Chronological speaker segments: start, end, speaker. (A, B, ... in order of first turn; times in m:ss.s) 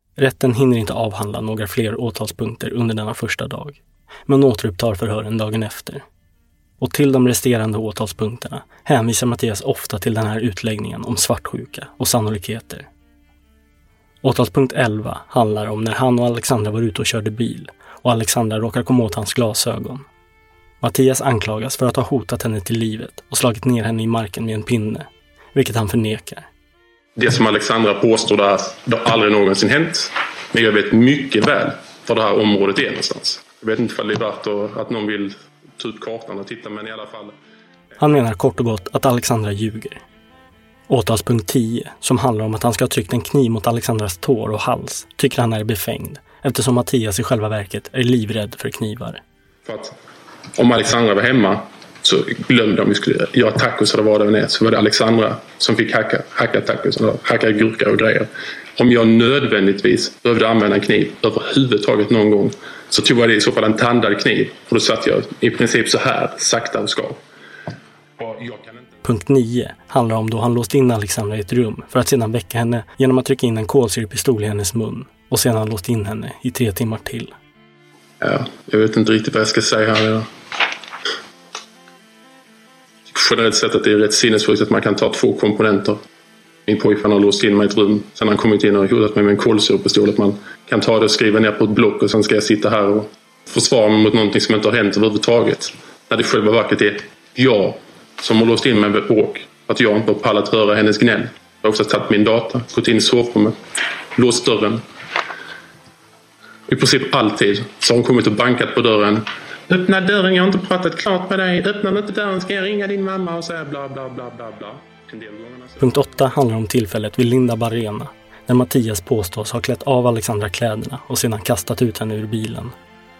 0:00.2-0:06.0 A
0:06.8-0:12.9 A
0:14.2-0:20.0 A
0:20.8-0:26.5 A
0:27.2-0:37.3 B
0:38.0-0:40.0 A
0:40.9-0:49.2 A
0:49.7-0:49.9 B
0:50.6-1:07.2 B
1:08.2-1:09.0 B
1:09.0-1:17.3 A
1:18.2-1:20.3 B
1:23.1-1:26.0 B
1:26.7-1:43.6 B
1:44.2-1:44.8 B
1:46.7-1:56.0 B
1:55.8-2:02.7 A